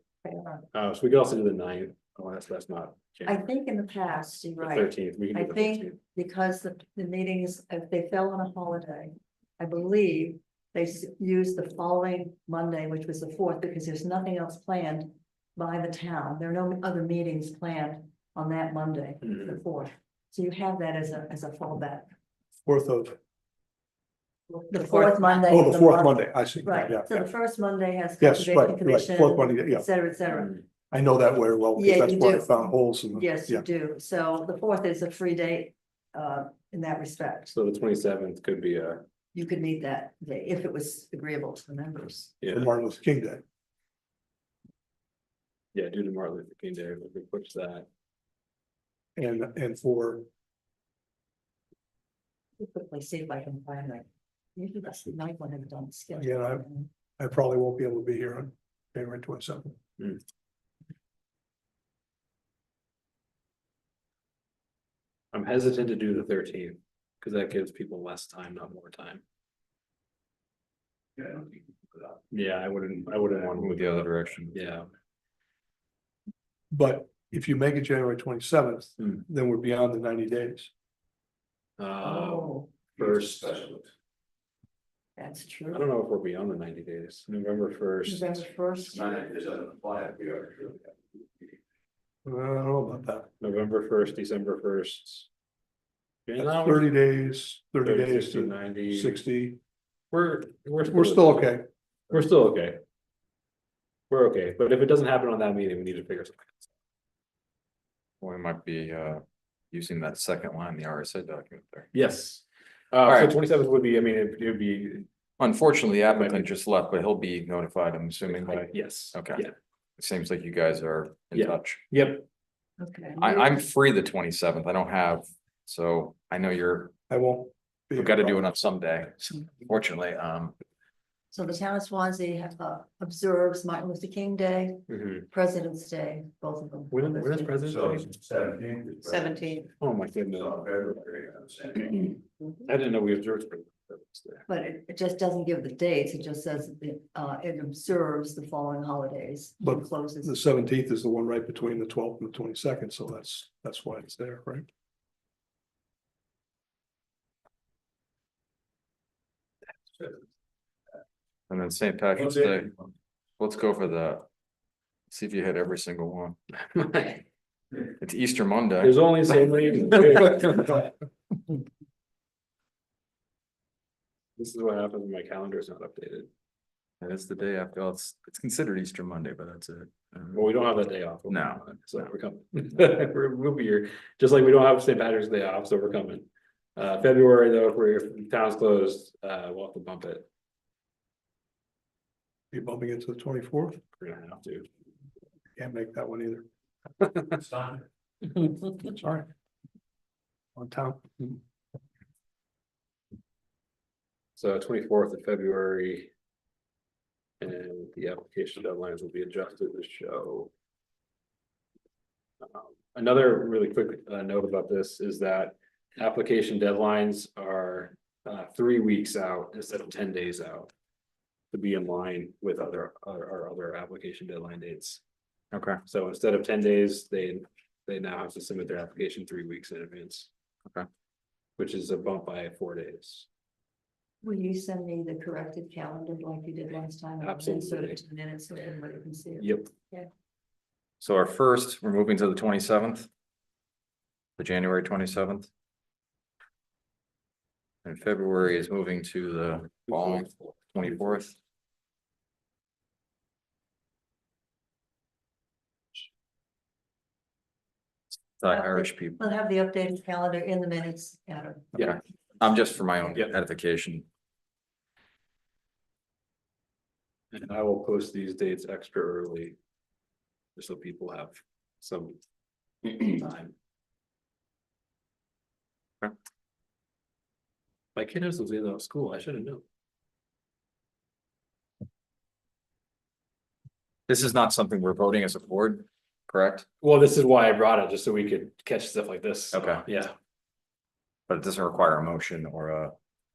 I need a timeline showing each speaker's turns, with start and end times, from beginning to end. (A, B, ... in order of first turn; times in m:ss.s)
0:00.2-0:00.7 A
0:00.7-0:03.5 B
0:03.2-0:22.1 A
0:04.6-0:06.0 B
0:19.2-0:19.6 B
0:22.6-0:23.2 C
0:24.5-0:30.6 A
0:24.8-0:27.3 C
0:28.2-0:29.9 C
0:30.9-0:33.6 C
0:31.8-0:32.6 A
0:33.1-0:37.6 A
0:37.5-0:39.0 B
0:39.3-0:42.3 A
0:42.4-0:42.7 B
0:42.5-0:43.4 C
0:45.7-0:47.8 B
0:49.2-0:50.3 C
0:52.6-0:56.9 A
0:56.2-0:56.7 C
0:57.2-0:59.8 C
1:05.3-1:09.2 B
1:12.3-1:14.9 B
1:13.5-1:14.6 D
1:16.7-1:20.7 C
1:19.0-1:19.2 B
1:21.8-1:23.8 B
1:22.0-1:22.7 A
1:25.2-1:25.8 A
1:25.7-1:28.4 B
1:28.0-1:29.6 A
1:29.9-1:30.2 D
1:32.2-1:33.3 C
1:33.4-1:35.3 B
1:36.2-1:36.9 B
1:36.4-1:39.6 C
1:37.8-1:39.2 B
1:40.1-1:41.6 B
1:40.9-1:41.6 C
1:42.1-1:42.8 B
1:44.1-1:46.7 B
1:48.2-1:51.9 D
1:51.9-1:55.1 B
1:53.0-1:53.3 D
1:55.4-1:59.4 D
1:56.1-1:56.5 B
1:58.2-1:59.5 B
2:00.0-2:01.8 D
2:01.3-2:02.2 B
2:02.8-2:03.6 A
2:03.2-2:06.9 D
2:07.1-2:08.4 C
2:08.0-2:10.5 D
2:11.3-2:17.6 A
2:14.9-2:15.2 B
2:16.9-2:18.4 B
2:19.8-2:24.4 B
2:24.5-2:30.4 A
2:29.6-2:34.6 C
2:41.5-2:42.8 D
2:43.4-2:44.2 D
2:45.1-2:46.4 D
2:46.6-2:47.2 B
2:47.9-2:49.0 D
2:48.8-2:50.9 B
2:54.4-2:56.3 B
2:57.0-3:00.4 D
3:00.3-3:10.3 B
3:01.3-3:01.6 D
3:12.5-3:13.8 C
3:14.0-3:14.7 B
3:15.6-3:16.4 C
3:17.0-3:17.7 B
3:18.8-3:19.3 C
3:20.6-3:21.4 C
3:24.4-3:26.1 B
3:27.4-3:30.5 B
3:32.4-3:40.7 B
3:41.5-3:45.0 B
3:45.5-3:45.8 D
3:45.9-3:50.3 B
3:51.6-3:53.3 B
3:54.2-4:00.1 A
3:57.2-3:58.0 B
3:59.4-3:59.7 B
4:01.0-4:03.1 D
4:04.4-4:05.5 D
4:07.8-4:11.4 D
4:18.4-4:19.2 D
4:18.5-4:21.9 A
4:21.7-4:24.0 D
4:27.3-4:29.6 B
4:30.6-4:32.2 B
4:32.8-4:33.5 B
4:38.0-4:39.6 B
4:44.1-4:46.6 D
4:46.8-4:50.1 B
4:49.5-4:49.8 D
4:51.3-4:52.9 D